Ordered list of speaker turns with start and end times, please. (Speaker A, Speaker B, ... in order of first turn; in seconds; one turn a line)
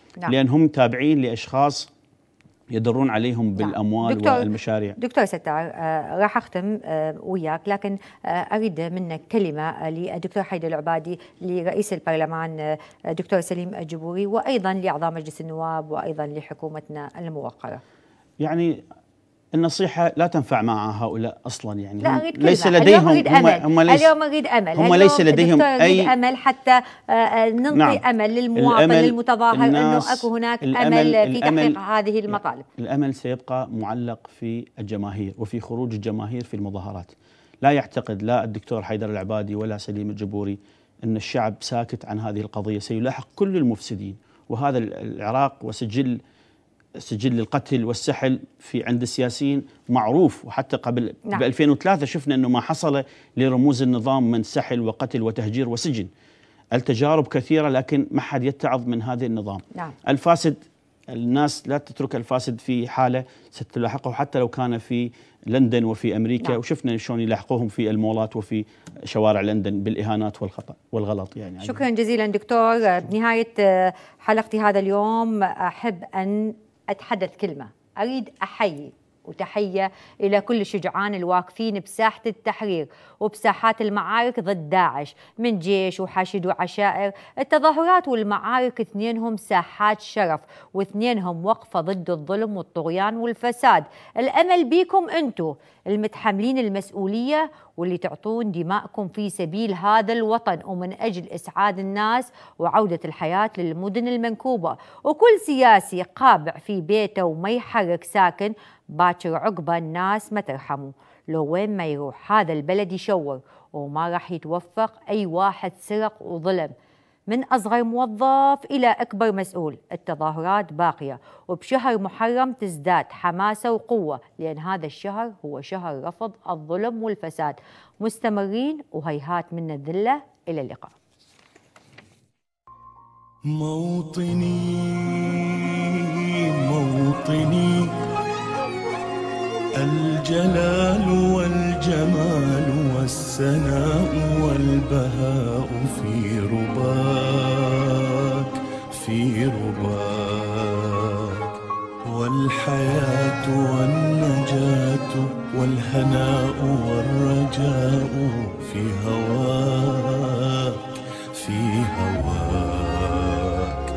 Speaker A: 0.3-1.9
Speaker A: 2.7-5.0
Speaker B: 3.6-4.5
Speaker B: 5.0-12.6
Speaker B: 13.1-17.8
Speaker A: 18.4-18.8
Speaker A: 19.6-24.1
Speaker B: 22.0-32.7
Speaker A: 24.8-26.1
Speaker A: 27.7-28.0
Speaker A: 28.6-31.8
Speaker A: 32.3-37.1
Speaker A: 37.6-46.2
Speaker A: 47.0-56.1
Speaker A: 56.7-60.6
Speaker A: 61.1-71.8
Speaker B: 71.6-116.7
Speaker B: 117.3-130.9
Speaker C: 133.5-137.9
Speaker C: 139.8-151.5
Speaker C: 152.1-160.8
Speaker C: 161.4-163.8